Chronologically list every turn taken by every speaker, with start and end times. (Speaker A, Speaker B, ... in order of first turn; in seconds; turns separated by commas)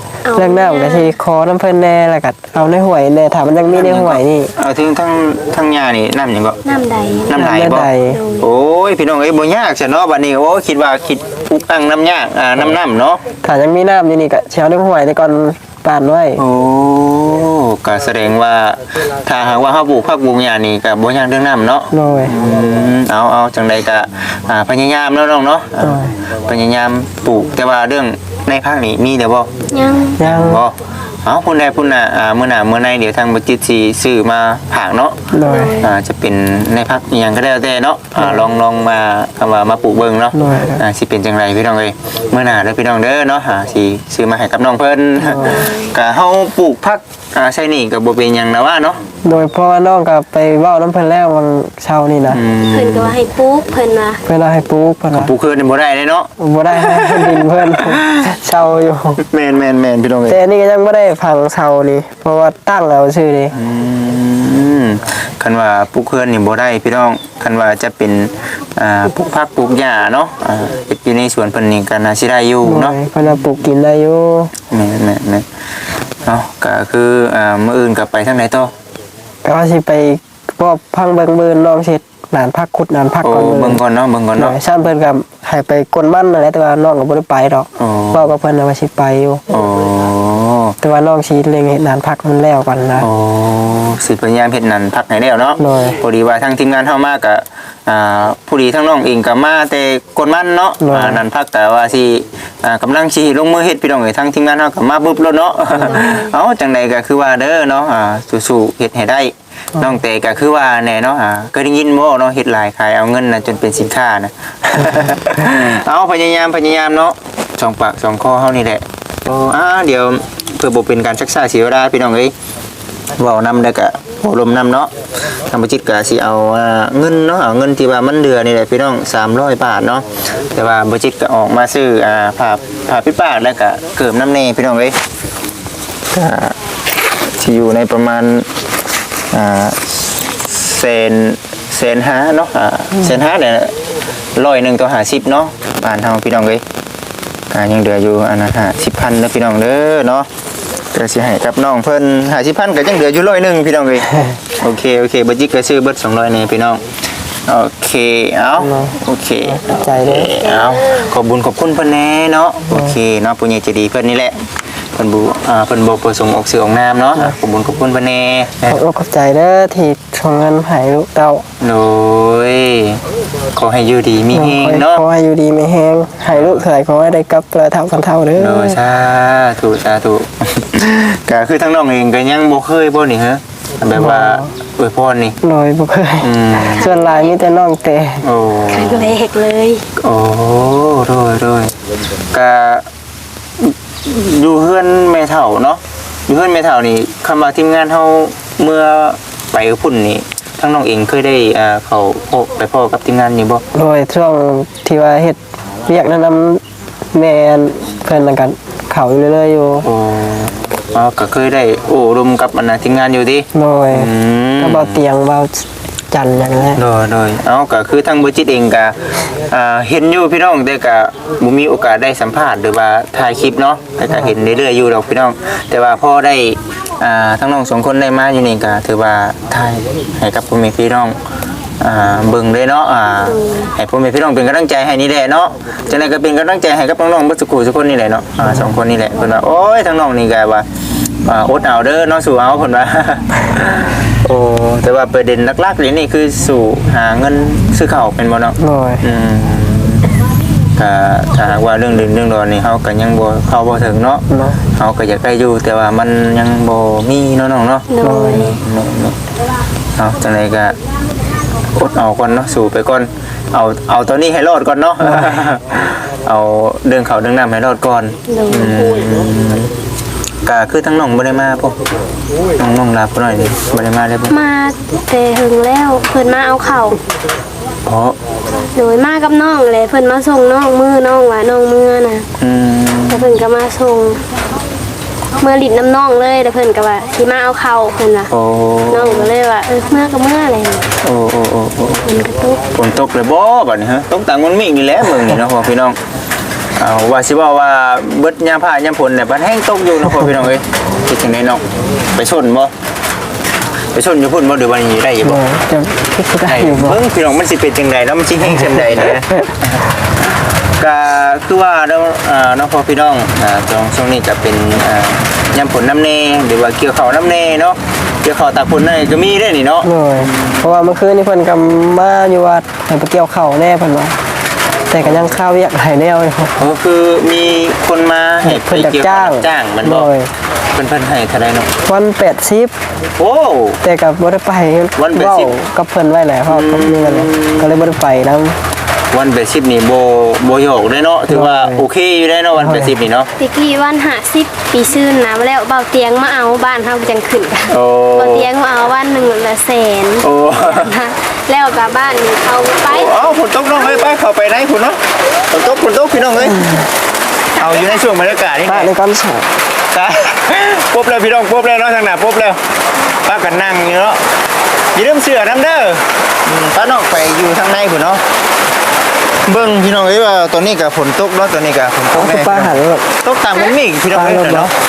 Speaker A: 0.2-1.2, Speaker B: 0.3-4.5, Speaker C: 3.7-6.6, Speaker A: 6.7-7.5, Speaker C: 7.3-7.9, Speaker B: 7.3-8.2, Speaker A: 8.1-8.5, Speaker C: 8.4-13.2, Speaker B: 13.4-16.4, Speaker C: 16.4-29.5, Speaker B: 21.9-22.4, Speaker B: 25.8-26.1, Speaker A: 29.7-30.2, Speaker B: 30.2-30.6, Speaker C: 30.2-49.0, Speaker B: 35.3-35.8, Speaker A: 35.4-35.9, Speaker B: 38.2-38.5, Speaker B: 40.3-40.8, Speaker B: 45.2-45.6, Speaker A: 45.4-45.9, Speaker B: 49.2-52.4, Speaker C: 52.3-53.2, Speaker A: 52.7-54.2, Speaker B: 54.2-55.3, Speaker C: 55.1-58.3, Speaker B: 56.4-59.2, Speaker C: 59.2-60.4, Speaker B: 60.3-63.5, Speaker C: 63.5-73.0, Speaker B: 72.6-74.5, Speaker C: 74.7-75.5, Speaker C: 76.2-78.7, Speaker B: 79.4-83.8, Speaker C: 83.2-84.6, Speaker B: 84.4-89.4, Speaker C: 87.8-88.2, Speaker C: 89.5-90.8, Speaker B: 90.8-93.1, Speaker C: 93.0-122.3, Speaker B: 95.6-96.0, Speaker B: 100.8-101.2, Speaker A: 105.8-106.3, Speaker C: 123.1-135.0, Speaker C: 136.1-136.6, Speaker C: 137.2-138.5, Speaker C: 139.3-139.9, Speaker C: 140.4-143.8, Speaker C: 144.3-146.6, Speaker C: 147.5-150.3, Speaker C: 150.9-156.8, Speaker C: 157.5-168.8, Speaker B: 158.6-160.3, Speaker A: 160.4-161.1, Speaker B: 168.7-171.4, Speaker C: 171.6-173.0, Speaker C: 173.5-175.0, Speaker B: 174.3-178.8, Speaker C: 176.3-176.7, Speaker C: 178.4-185.4, Speaker B: 183.9-184.5, Speaker B: 185.4-188.3, Speaker C: 186.2-186.9, Speaker A: 186.7-187.3, Speaker C: 188.2-189.2, Speaker A: 188.7-189.9, Speaker C: 190.0-191.8, Speaker C: 192.3-192.9, Speaker C: 193.6-203.6, Speaker B: 203.7-206.6, Speaker B: 207.1-209.9, Speaker C: 209.8-215.0, Speaker B: 213.5-216.8, Speaker C: 216.8-231.2, Speaker C: 231.8-240.7, Speaker A: 233.3-233.7, Speaker B: 238.5-238.7, Speaker C: 241.2-250.1, Speaker B: 248.6-249.0, Speaker C: 250.8-259.2, Speaker B: 254.3-254.6, Speaker A: 257.9-258.5, Speaker B: 258.0-258.5, Speaker C: 260.0-260.8, Speaker C: 261.7-269.7, Speaker A: 268.3-269.1, Speaker C: 270.4-271.8, Speaker C: 272.6-274.4, Speaker A: 274.3-277.0, Speaker C: 277.9-278.2, Speaker A: 278.7-282.3, Speaker C: 282.4-283.4, Speaker A: 283.1-284.2, Speaker A: 285.4-288.3, Speaker C: 288.3-289.3, Speaker A: 288.9-290.9, Speaker C: 291.0-292.1, Speaker A: 292.0-292.6, Speaker C: 292.7-296.0, Speaker C: 296.8-302.7, Speaker C: 303.9-305.4, Speaker B: 305.2-307.0, Speaker C: 306.4-320.7, Speaker B: 319.8-324.2, Speaker B: 324.9-326.6, Speaker C: 325.0-325.4, Speaker C: 326.6-330.1, Speaker B: 328.4-330.3, Speaker C: 330.7-331.7, Speaker B: 331.9-332.7, Speaker C: 333.2-333.8, Speaker B: 333.8-338.6, Speaker C: 335.0-335.6, Speaker C: 336.5-337.7, Speaker C: 339.1-343.3, Speaker B: 341.3-341.9, Speaker B: 342.6-343.0, Speaker A: 343.4-353.3, Speaker C: 347.7-348.5, Speaker C: 350.2-350.9, Speaker C: 352.9-356.9, Speaker B: 356.5-356.8, Speaker C: 357.6-358.9, Speaker A: 357.6-358.0, Speaker B: 358.6-359.5, Speaker C: 359.9-362.6, Speaker C: 363.2-364.2, Speaker C: 364.9-368.2, Speaker C: 369.5-374.7, Speaker B: 372.1-373.1, Speaker B: 374.1-374.7